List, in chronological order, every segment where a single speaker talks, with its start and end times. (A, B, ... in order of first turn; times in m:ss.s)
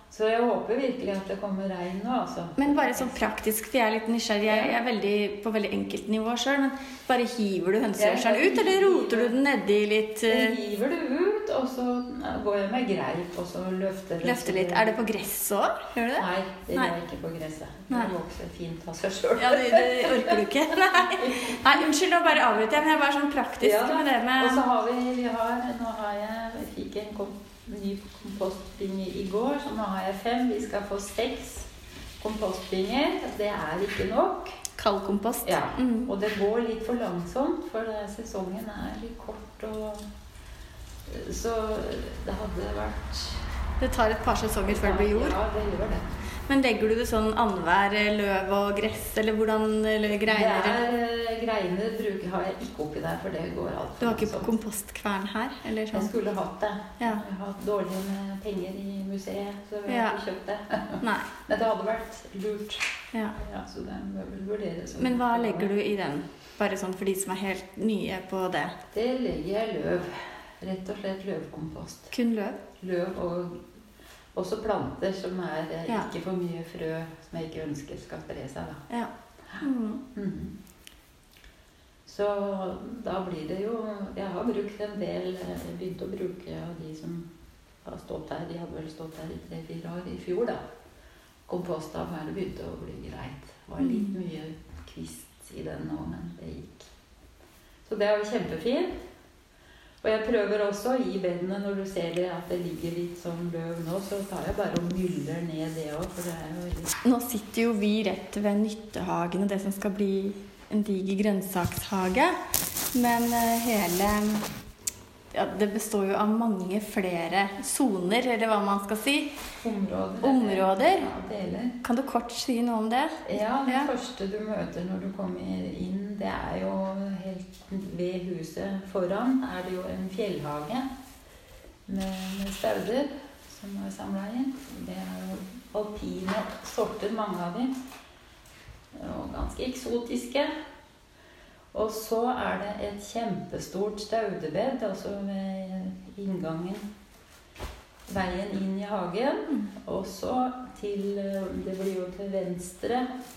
0:00.1-0:03.3 A
0:02.6-0:10.6 B
0:04.5-0:04.7 A
0:08.0-0:09.4 A
0:10.3-0:15.0 A
0:14.2-0:16.9 B
0:16.2-0:22.6 A
0:19.4-0:24.6 B
0:23.6-0:34.6 A
0:34.8-0:36.1 B
0:35.4-0:40.1 A
0:41.1-0:43.5 A
0:43.8-0:45.4 B
0:44.7-0:46.1 A
0:46.5-0:50.8 B
0:50.3-0:54.5 A
0:54.0-0:56.1 B
0:55.9-1:02.8 A
0:59.9-1:00.2 B
1:01.0-1:01.3 B
1:03.4-1:05.7 A
1:05.0-1:08.8 B
1:08.9-1:12.1 A
1:12.1-1:12.6 B
1:12.8-1:13.6 A
1:14.3-1:18.8 A
1:18.9-1:20.0 B
1:20.2-1:20.6 A
1:22.1-1:27.3 A
1:27.8-1:30.6 A
1:31.5-1:36.9 A
1:33.8-1:34.2 B
1:37.8-1:39.0 A
1:40.0-1:47.0 A
1:47.0-1:52.4 B
1:52.9-1:54.5 B
1:55.3-1:59.4 B
1:59.6-2:01.8 A
2:00.2-2:01.1 B
2:01.8-2:03.9 B
2:03.3-2:10.9 A
2:11.9-2:17.7 A
2:18.9-2:20.5 A
2:21.7-2:26.9 A
2:28.1-2:33.1 A